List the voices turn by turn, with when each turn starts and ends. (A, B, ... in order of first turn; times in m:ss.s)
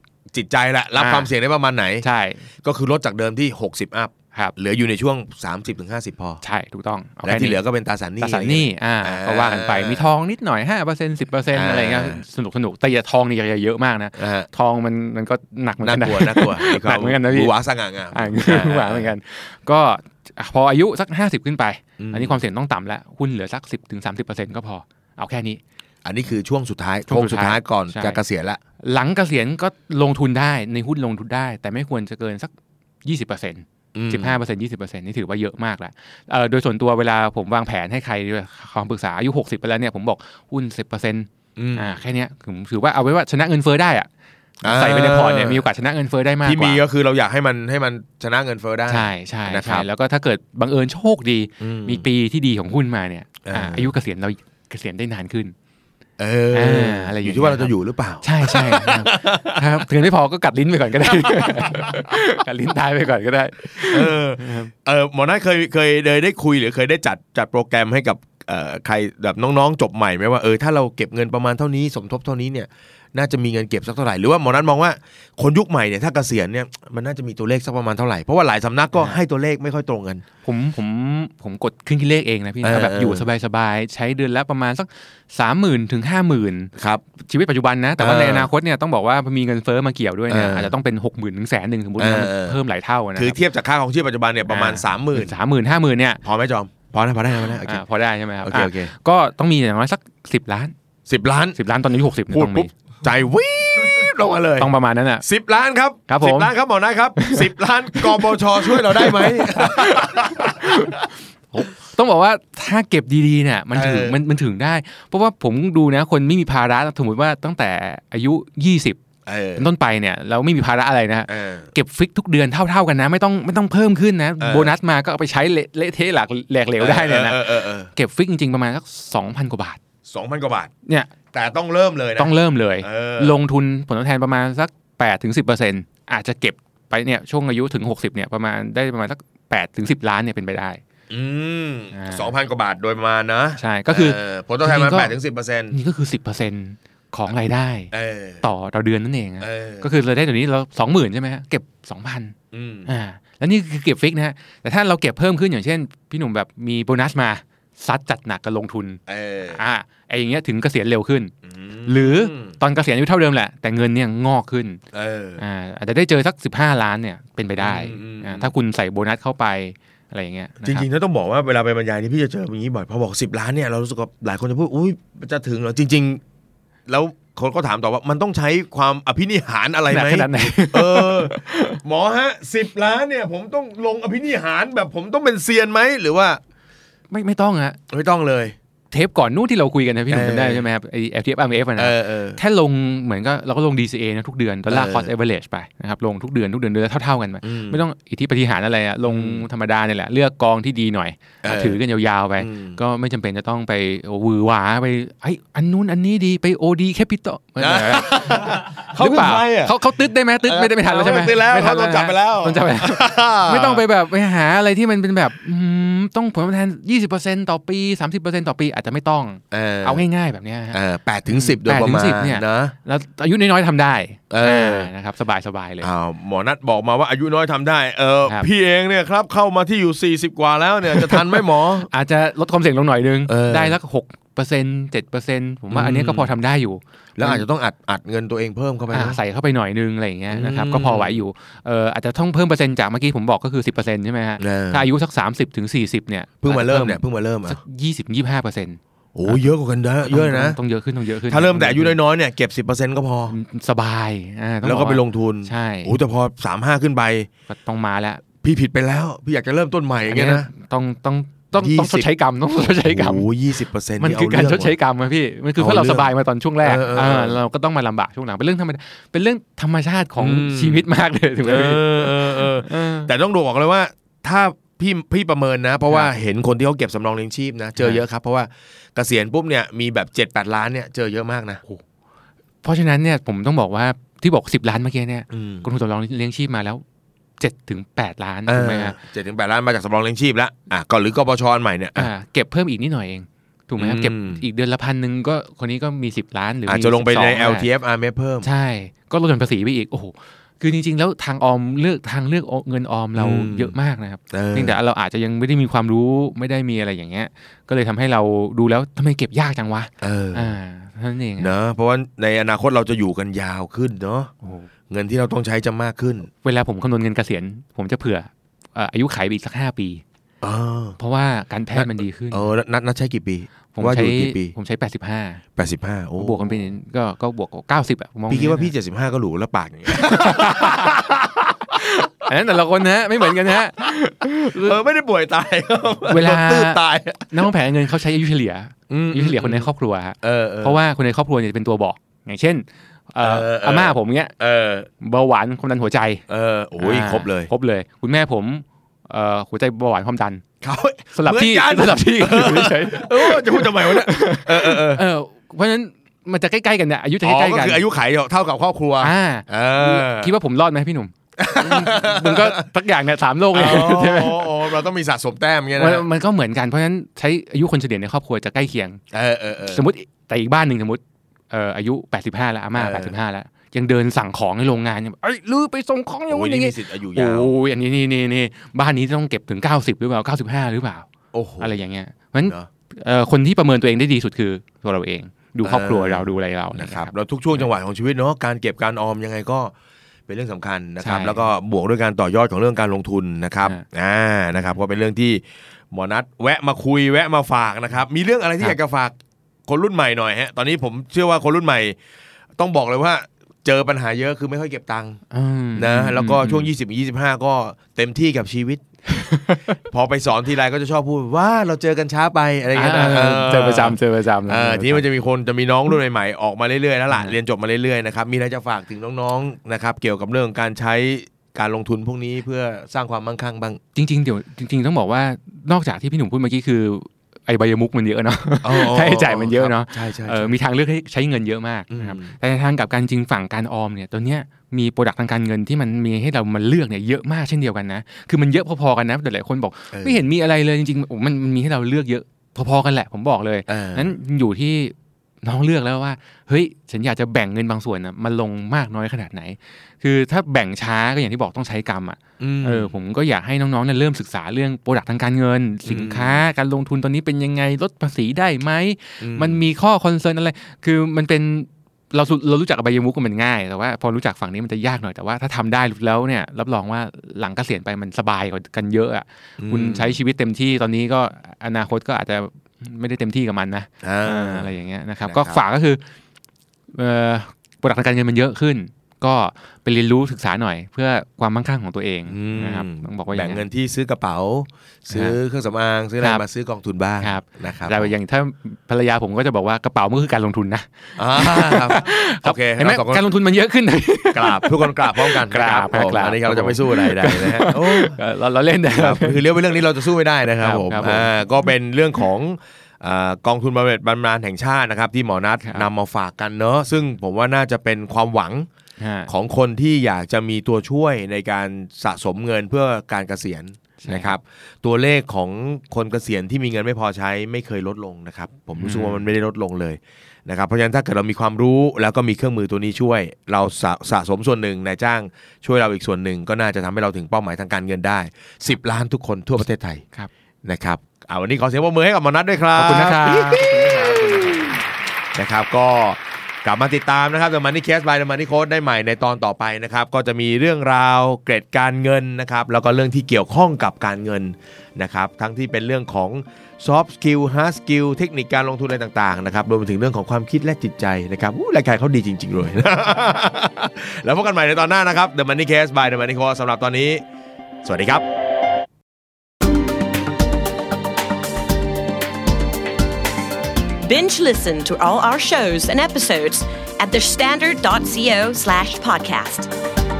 0:00.3-0:02.0 A
0:01.0-0:01.3 B
0:02.0-0:02.5 B
0:02.6-0:06.4 A
0:06.4-0:07.6 B
0:07.2-0:10.1 A
0:08.2-0:17.5 B
0:11.5-0:12.2 A
0:14.2-0:14.5 A
0:15.8-0:19.1 A
0:18.1-0:25.6 B
0:22.0-0:22.4 A
0:26.0-0:28.6 A
0:27.1-0:28.2 B
0:28.8-0:32.5 B
0:33.0-0:44.1 B
0:33.9-0:34.4 A
0:41.6-0:41.9 A
0:44.6-0:45.6 A
0:44.6-0:46.8 B
0:46.4-0:49.8 A
0:48.9-0:55.6 B
0:51.6-0:52.0 A
0:53.4-0:53.9 A
0:56.2-0:59.9 A
0:56.5-0:57.7 B
0:58.2-1:04.7 B
1:01.1-1:02.1 A
1:03.8-1:20.2 A
1:20.4-1:33.4 B
1:22.6-1:23.3 A
1:26.8-1:27.0 A
1:28.0-1:28.5 A
1:30.3-1:30.7 A
1:32.0-1:32.6 A
1:33.2-1:35.4 A
1:34.5-1:36.2 B
1:36.2-1:37.8 A
1:37.6-1:40.7 B
1:38.4-1:38.9 A
1:41.1-1:41.6 A
1:41.6-1:42.7 B
1:42.3-1:44.7 A
1:44.6-1:45.2 B
1:45.2-1:51.0 A
1:46.1-1:46.5 B
1:47.2-1:47.5 B
1:48.0-1:59.0 B
1:53.7-1:54.2 A
1:59.3-1:59.7 A
1:59.6-2:09.8 B
2:01.3-2:01.7 A
2:04.4-2:04.7 A
2:06.8-2:07.9 A
2:10.1-2:10.7 A
2:10.9-2:11.1 B
2:11.3-2:13.4 A
2:12.2-2:20.8 B
2:21.1-2:25.8 A
2:21.9-2:22.3 B
2:23.6-2:25.2 B
2:25.7-2:32.4 B
2:27.9-2:28.4 A
2:29.4-2:29.9 A
2:32.5-2:32.9 A
2:32.9-2:41.3 B
2:39.1-2:39.6 A
2:41.5-2:42.6 A
2:41.9-2:44.8 B
2:44.9-2:45.4 A
2:45.4-2:50.9 B
2:47.6-2:48.5 A
2:50.6-2:56.2 A
2:56.9-3:06.4 A
2:59.9-3:01.8 B
3:07.1-3:07.8 B
3:07.9-3:08.6 A
3:08.9-3:45.9 B
3:10.1-3:10.7 A
3:11.8-3:12.4 A
3:14.7-3:15.1 A
3:17.4-3:17.8 A
3:19.0-3:19.4 A
3:21.4-3:21.8 A
3:22.4-3:22.8 A
3:27.6-3:29.8 A
3:30.4-3:33.8 A
3:39.5-3:40.1 A
3:40.7-3:42.8 A
3:44.3-3:44.9 A
3:45.8-3:51.9 A
3:50.9-3:57.4 B
3:53.3-3:53.8 A
3:55.7-3:56.3 A
3:57.2-3:59.2 A
3:58.9-4:09.4 B
4:00.3-4:01.2 A
4:04.4-4:04.9 A
4:06.4-4:07.6 A
4:09.2-4:10.6 A
4:10.1-4:12.0 B
4:11.3-4:13.4 A
4:13.3-4:16.0 B
4:14.6-4:17.3 A
4:17.5-4:18.2 B
4:18.4-4:20.5 A
4:20.1-4:23.3 B
4:21.6-4:24.8 A
4:24.0-4:33.1 B
4:25.6-4:26.1 A
4:26.6-4:27.4 A
4:30.2-4:30.8 A
4:31.4-4:41.6 A
4:42.6-4:46.8 B
4:45.3-4:45.7 A
4:47.4-4:49.0 B
4:48.5-4:52.1 A
4:52.0-4:57.7 B
4:53.8-4:54.4 A
4:56.7-4:58.5 A
4:58.4-5:11.5 B
5:03.2-5:03.7 A
5:04.3-5:04.8 A
5:10.0-5:10.5 A
5:11.4-5:14.3 A
5:14.4-5:14.7 B
5:14.9-5:16.3 A
5:16.4-5:20.0 B
5:20.4-5:21.0 A
5:21.0-5:22.5 B
5:21.7-5:24.6 A
5:23.8-5:25.4 B
5:25.6-5:26.7 A
5:26.2-5:28.7 B
5:28.3-5:32.1 A
5:29.9-5:31.0 B
5:31.8-5:34.8 B
5:33.5-5:33.9 A
5:34.4-5:37.5 A
5:36.1-5:44.3 B
5:38.9-5:39.7 A
5:40.2-5:40.8 A
5:43.2-5:44.9 A
5:45.0-5:46.2 B
5:46.3-5:47.5 A
5:46.8-5:50.4 B
5:50.6-5:55.0 A
5:51.1-5:57.8 B
5:57.2-6:00.3 A
5:59.0-6:04.5 B
6:01.4-6:02.6 A
6:03.5-6:06.0 A
6:05.8-6:09.0 B
6:09.1-6:09.8 A
6:09.7-6:21.1 B
6:12.8-6:13.1 A
6:16.3-6:17.5 A
6:21.3-6:21.7 A
6:21.6-6:27.6 B
6:25.6-6:29.7 A
6:30.3-6:39.2 A
6:31.0-6:31.4 B
6:39.7-6:42.0 A
6:42.6-6:45.2 A
6:45.3-6:46.7 B
6:45.8-6:48.8 A
6:49.1-6:49.8 B
6:49.9-7:03.8 A
6:52.8-6:55.0 B
7:04.0-7:56.0 B
7:08.6-7:10.6 A
7:11.9-7:12.3 A
7:19.9-7:20.2 A
7:23.7-7:24.1 A
7:32.4-7:32.9 A
7:35.9-7:36.4 A
7:39.2-7:39.6 A
7:49.6-7:50.2 A
7:54.0-7:54.7 A
7:55.2-7:55.6 A
7:56.9-8:03.6 B
8:02.3-8:08.1 A
8:05.1-8:05.4 B
8:07.2-8:19.4 B
8:11.2-8:13.3 A
8:14.3-8:18.2 A
8:18.9-8:28.7 A
8:20.6-8:21.3 B
8:29.0-8:29.3 B
8:29.3-8:50.0 A
8:34.0-8:34.3 B
8:38.8-8:39.3 B
8:50.6-8:54.8 A
8:52.8-8:54.7 B
8:55.4-9:17.2 A
9:17.8-9:18.2 A
9:24.0-9:29.7 C